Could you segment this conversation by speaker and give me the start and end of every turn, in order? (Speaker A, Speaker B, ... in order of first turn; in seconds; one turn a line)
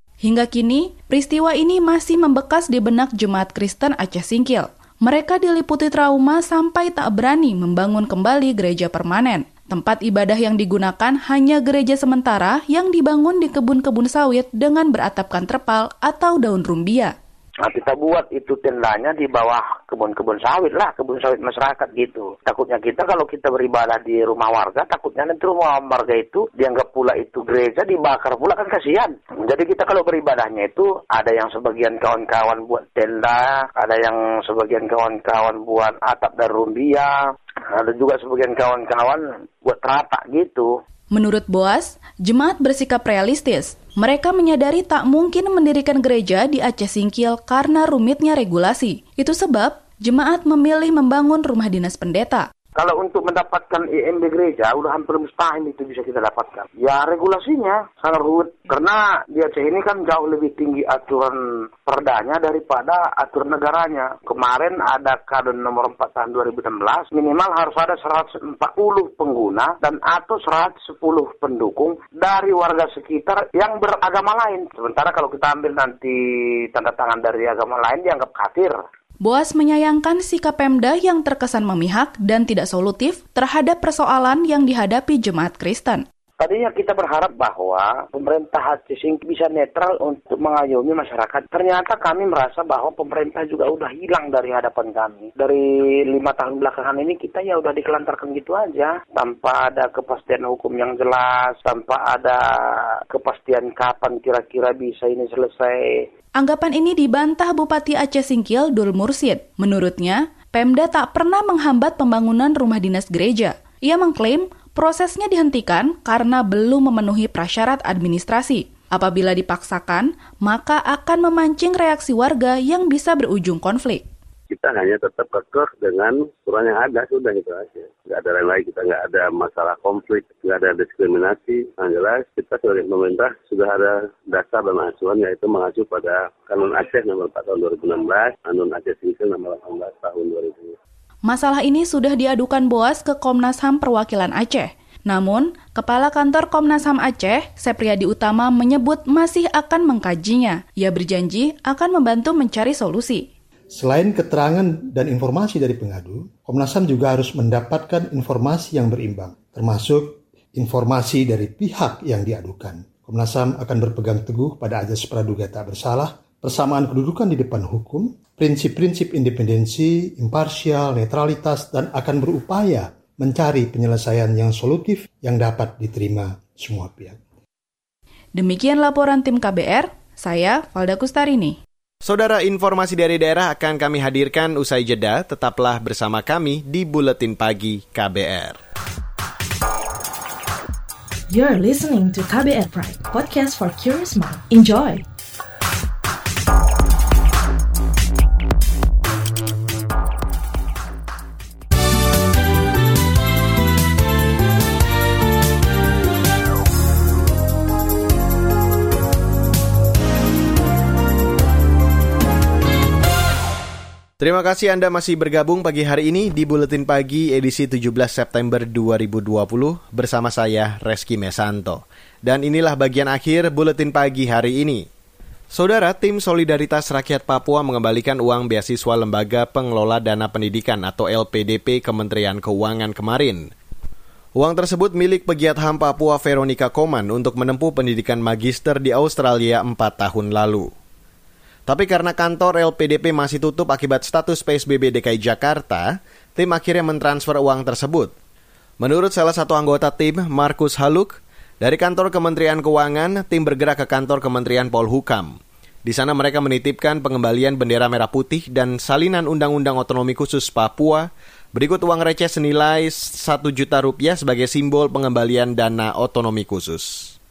Speaker A: 0.2-17.1
Speaker B: 17.6-37.1
Speaker B: 37.7-40.7
Speaker A: 41.1-52.5
Speaker B: 52.8-76.2
Speaker B: 76.7-78.7
Speaker A: 79.2-86.0
Speaker B: 86.4-102.4
Speaker B: 103.1-106.0
Speaker A: 106.4-124.0
Speaker C: 124.5-140.8
Speaker A: 141.3-153.2
Speaker D: 153.7-177.2
Speaker A: 178.4-181.6
Speaker E: 182.0-188.6
Speaker F: 191.3-195.0
Speaker E: 214.2-224.8
Speaker E: 225.5-233.5
Speaker E: 234.3-240.7
Speaker E: 241.7-248.1
Speaker E: 248.8-267.1